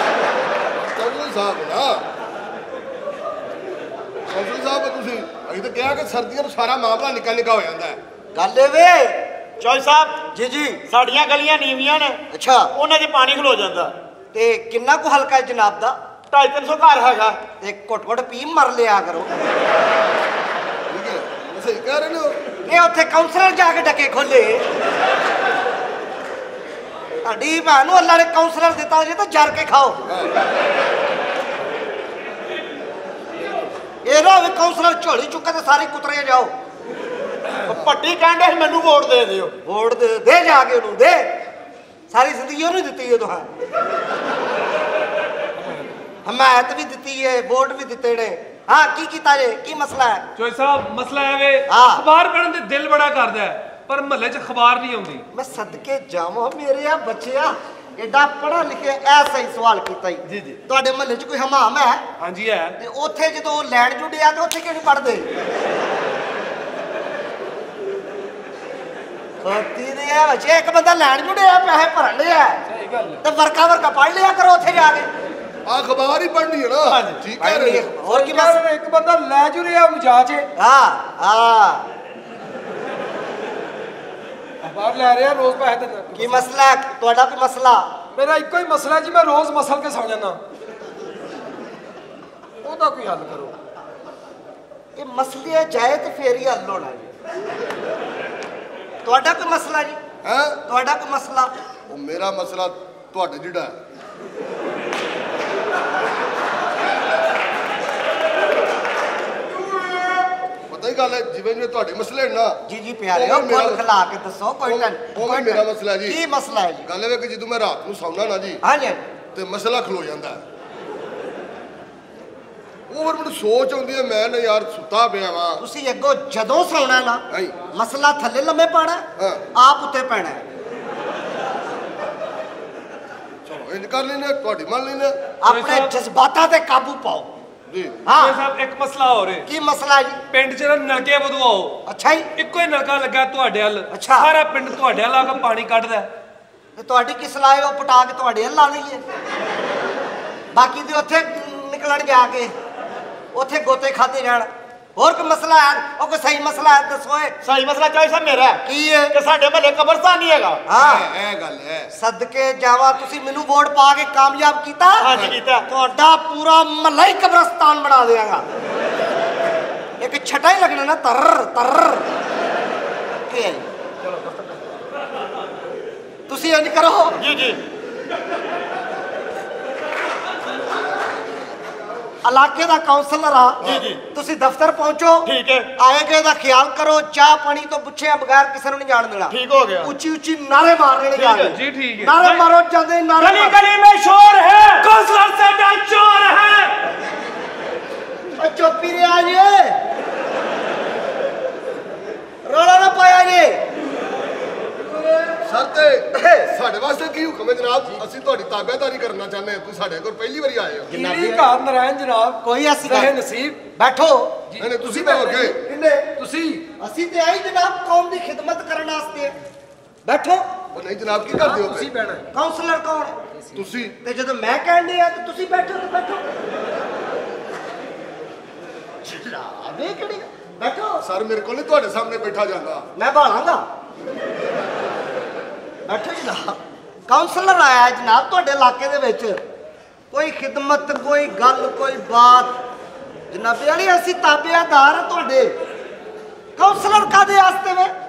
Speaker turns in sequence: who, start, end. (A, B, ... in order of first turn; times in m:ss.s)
0:00.8-0:02.0 A
0:04.3-0:08.0 A
0:08.3-0:09.2 B
0:09.6-0:10.2 C
0:10.3-0:10.8 B
0:10.9-0:12.2 C
0:12.3-0:12.7 B
0:12.7-0:13.9 C
0:14.3-0:16.0 B
0:16.3-0:17.4 C
0:17.6-0:19.3 B
0:20.9-0:22.4 A
0:22.7-0:24.6 B
0:27.2-0:30.0 B
0:34.0-0:36.5 B
0:37.6-0:39.5 C
0:39.6-0:41.3 B
0:42.1-0:43.5 B
0:46.3-0:50.3 B
0:50.4-0:55.3 D
0:51.7-0:52.1 B
0:55.3-1:02.0 B
1:02.2-1:02.8 D
1:02.8-1:05.3 B
1:09.4-1:12.6 B
1:12.7-1:13.2 E
1:13.2-1:15.1 B
1:15.7-1:17.9 A
1:16.8-1:17.2 C
1:17.4-1:18.6 B
1:18.0-1:20.5 E
1:20.6-1:21.9 B
1:24.6-1:26.5 E
1:26.2-1:27.9 B
1:28.2-1:30.4 E
1:32.6-1:33.5 E
1:35.0-1:37.1 B
1:39.0-1:40.0 B
1:40.2-1:40.6 A
1:40.7-1:41.5 B
1:41.9-1:43.8 A
1:50.7-1:52.6 A
1:52.7-1:56.9 B
1:53.1-1:53.8 A
1:54.7-1:56.2 A
1:56.9-1:58.6 A
1:58.6-1:59.1 B
1:59.3-2:00.4 A
2:02.9-2:05.6 A
2:05.6-2:10.4 B
2:07.3-2:07.6 A
2:09.2-2:09.4 A
2:13.5-2:15.2 A
2:15.4-2:17.3 B
2:15.5-2:15.9 D
2:17.7-2:18.0 A
2:18.0-2:18.4 B
2:18.2-2:19.5 D
2:19.5-2:20.2 B
2:20.3-2:21.8 D
2:21.9-2:22.3 B
2:22.4-2:26.1 D
2:23.9-2:24.3 B
2:26.8-2:29.0 B
2:30.5-2:32.5 B
2:33.3-2:37.4 B
2:37.4-2:40.6 C
2:38.7-2:39.2 B
2:40.7-2:41.1 B
2:40.8-2:41.9 A
2:41.9-2:45.1 B
2:45.0-2:45.7 C
2:45.6-2:48.4 B
2:50.0-2:52.1 B
2:53.3-2:53.7 B
2:56.3-2:57.2 B
2:57.2-2:57.6 C
3:02.2-3:13.6 B
3:03.6-3:04.0 C
3:05.2-3:05.7 C
3:09.3-3:09.9 C
3:11.2-3:11.6 C
3:11.5-3:12.4 D
3:13.2-3:14.8 C
3:14.8-3:16.7 D
3:18.4-3:19.8 B
3:22.4-3:23.6 B
3:25.4-3:30.9 A
3:26.1-3:26.5 B
3:30.9-3:31.5 B
3:30.9-3:33.6 E
3:32.4-3:33.2 B
3:33.8-3:34.5 B
3:34.5-3:35.4 E
3:34.6-3:35.6 A
3:35.1-3:36.1 B
3:36.2-3:36.7 E
3:36.8-3:39.4 B
3:40.0-3:40.4 B
3:40.7-3:41.9 A
3:41.3-3:42.3 E
3:42.3-3:43.2 B
3:43.6-3:44.0 A
3:44.0-3:46.2 B
3:49.0-3:51.0 B
3:51.0-3:52.9 A
3:53.0-3:53.6 B
3:55.9-3:59.4 B
4:00.1-4:02.6 B
4:03.3-4:05.6 B
4:06.6-4:07.9 B